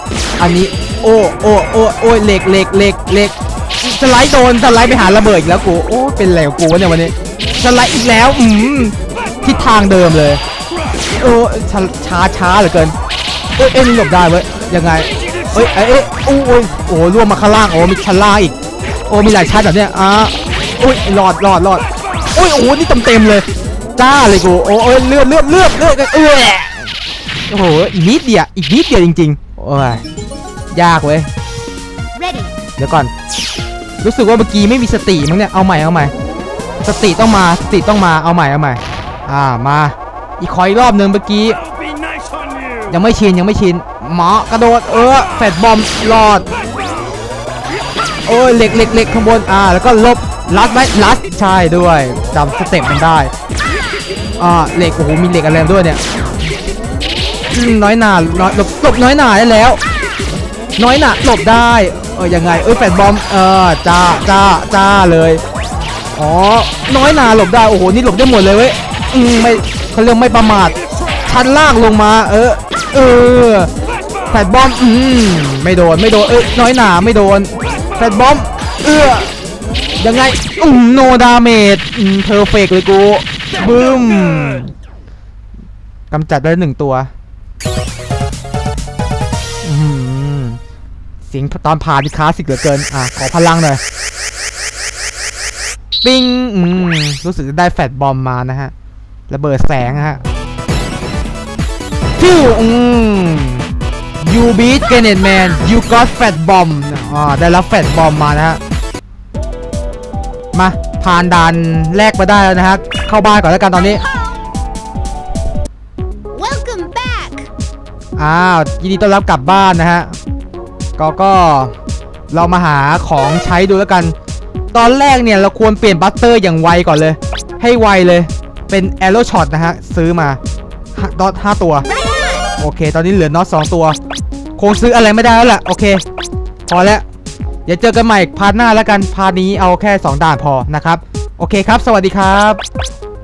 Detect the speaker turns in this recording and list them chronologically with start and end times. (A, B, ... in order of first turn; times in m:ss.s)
0:00.4-0:10.4 A
0:11.1-0:13.0 A
0:13.6-0:18.5 A
0:19.1-0:27.0 A
0:27.5-0:30.0 A
0:30.7-0:31.3 A
0:32.1-0:32.6 B
0:32.8-0:33.1 A
0:34.0-0:36.1 A
0:36.8-0:41.6 A
0:42.9-0:46.5 A
0:48.2-0:53.3 A
0:54.4-0:56.0 A
0:57.5-0:59.8 A
1:00.8-1:05.4 A
1:06.2-1:13.7 A
1:14.3-1:19.3 A
1:20.0-1:24.7 A
1:26.1-1:27.1 A
1:29.6-1:30.6 A
1:31.2-1:33.8 A
1:36.0-1:38.7 A
1:39.3-1:40.2 A
1:42.2-1:43.6 A
1:44.2-1:48.6 A
1:50.5-1:54.0 A
1:56.3-1:57.5 B
1:58.2-2:00.1 A
2:01.0-2:01.7 A
2:02.3-2:04.1 A
2:04.7-2:10.4 A
2:11.0-2:11.9 A
2:11.8-2:12.5 B
2:12.6-2:14.0 A
2:14.6-2:16.0 A
2:16.7-2:17.0 A
2:17.6-2:22.6 A